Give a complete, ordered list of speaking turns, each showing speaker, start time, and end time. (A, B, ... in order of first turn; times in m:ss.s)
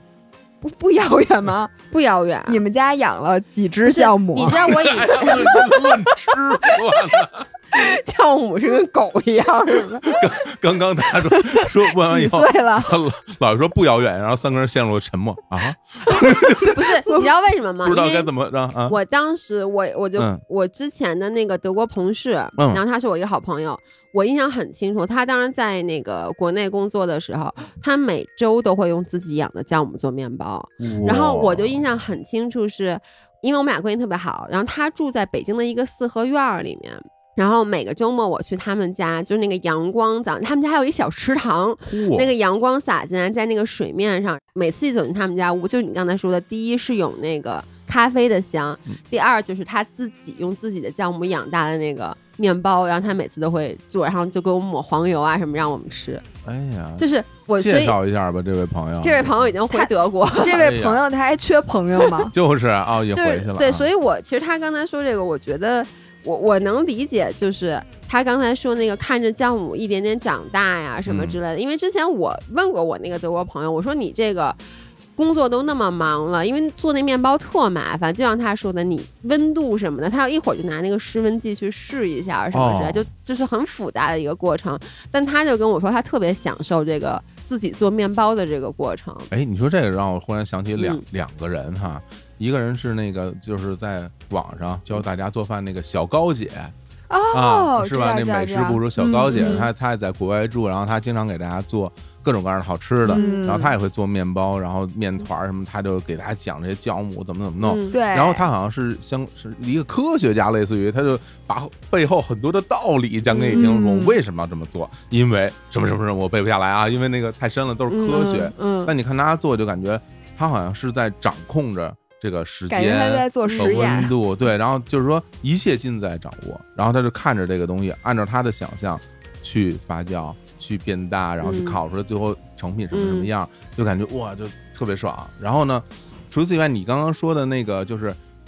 0:00.6-0:01.7 A
0:01.9-0:02.6 B
0:02.5-0:04.7 A
0:03.8-0:06.8 B
0:04.6-0:07.4 C
0:07.7-0:10.2 B
0:10.0-0:16.9 C
0:11.3-0:13.0 A
0:16.6-0:18.3 B
0:17.8-0:19.0 C
0:18.9-0:56.2 B
0:22.6-0:22.8 C
0:30.8-0:31.8 C
0:41.8-0:42.3 C
0:56.4-0:57.0 C
0:57.0-0:58.0 B
0:57.6-0:59.5 C
0:59.0-1:00.6 B
0:59.7-1:02.3 A
1:00.5-1:01.0 C
1:02.3-1:03.9 C
1:03.1-1:14.6 B
1:11.0-1:11.4 C
1:15.2-1:29.3 B
1:22.5-1:23.1 C
1:29.3-1:36.7 C
1:30.8-1:31.0 B
1:37.1-1:39.6 A
1:37.3-2:18.2 C
1:39.3-1:39.7 B
1:43.0-1:43.4 B
1:43.1-1:43.7 A
1:47.6-1:47.9 B
1:47.9-1:48.4 A
1:53.3-1:53.7 B
1:53.5-1:54.2 A
1:57.9-1:58.5 B
1:58.2-1:58.9 A
2:02.7-2:04.1 A
2:03.4-2:03.8 B
2:11.4-2:11.8 B
2:12.9-2:13.3 B